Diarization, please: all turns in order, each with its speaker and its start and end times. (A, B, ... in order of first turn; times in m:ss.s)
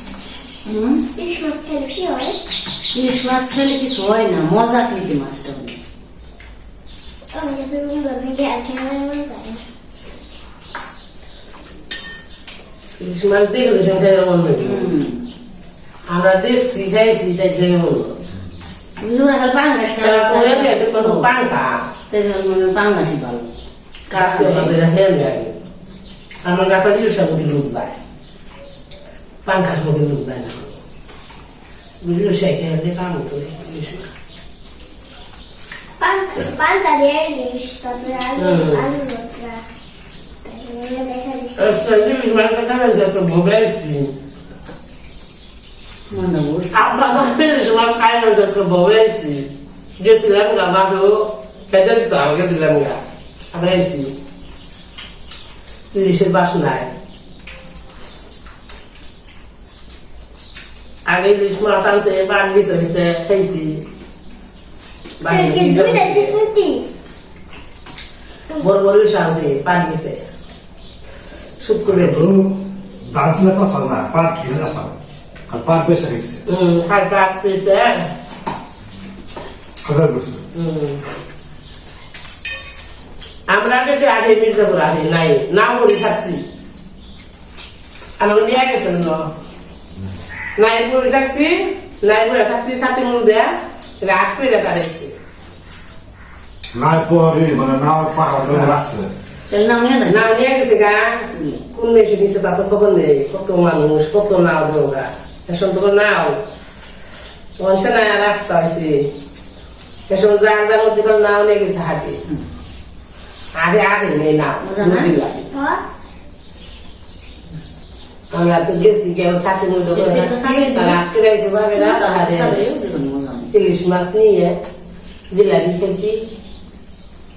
0:00.6-0:01.0 A
0:01.2-0:02.4 B
0:02.9-0:05.8 A
0:07.3-0:09.6 B
0:13.0-0:14.9 C
0:14.6-0:15.2 A
0:16.1-0:18.2 C
0:19.0-0:21.3 A
0:20.0-0:21.8 C
0:22.1-0:23.5 A
0:24.1-0:24.8 A
0:24.1-0:25.6 C
0:26.4-0:28.0 C
0:29.4-0:30.7 C
0:32.0-0:34.1 C
0:36.0-0:39.6 B
0:38.4-0:38.9 C
0:40.4-0:41.7 B
0:41.6-0:44.1 C
0:46.1-0:47.3 A
0:46.7-0:53.0 C
0:53.5-0:54.1 C
0:55.9-0:56.9 C
1:01.1-1:03.8 C
1:05.2-1:06.4 C
1:05.2-1:06.9 B
1:08.6-1:10.2 C
1:11.6-1:12.2 C
1:11.9-1:15.0 D
1:15.5-1:16.4 D
1:16.5-1:18.0 C
1:19.8-1:20.4 D
1:20.5-1:21.0 C
1:23.5-1:26.4 C
1:28.2-1:29.3 C
1:30.6-1:35.2 C
1:36.7-1:39.1 D
1:39.5-1:40.3 A
1:40.0-1:46.4 C
1:41.3-1:41.6 A
1:47.6-1:49.1 C
1:50.1-1:52.2 C
1:53.5-1:55.5 C
1:54.6-1:55.1 A
1:55.5-1:55.8 B
1:58.3-2:02.8 C
1:59.9-2:01.0 A
2:01.7-2:03.5 A
2:03.5-2:04.6 C
2:05.3-2:06.3 C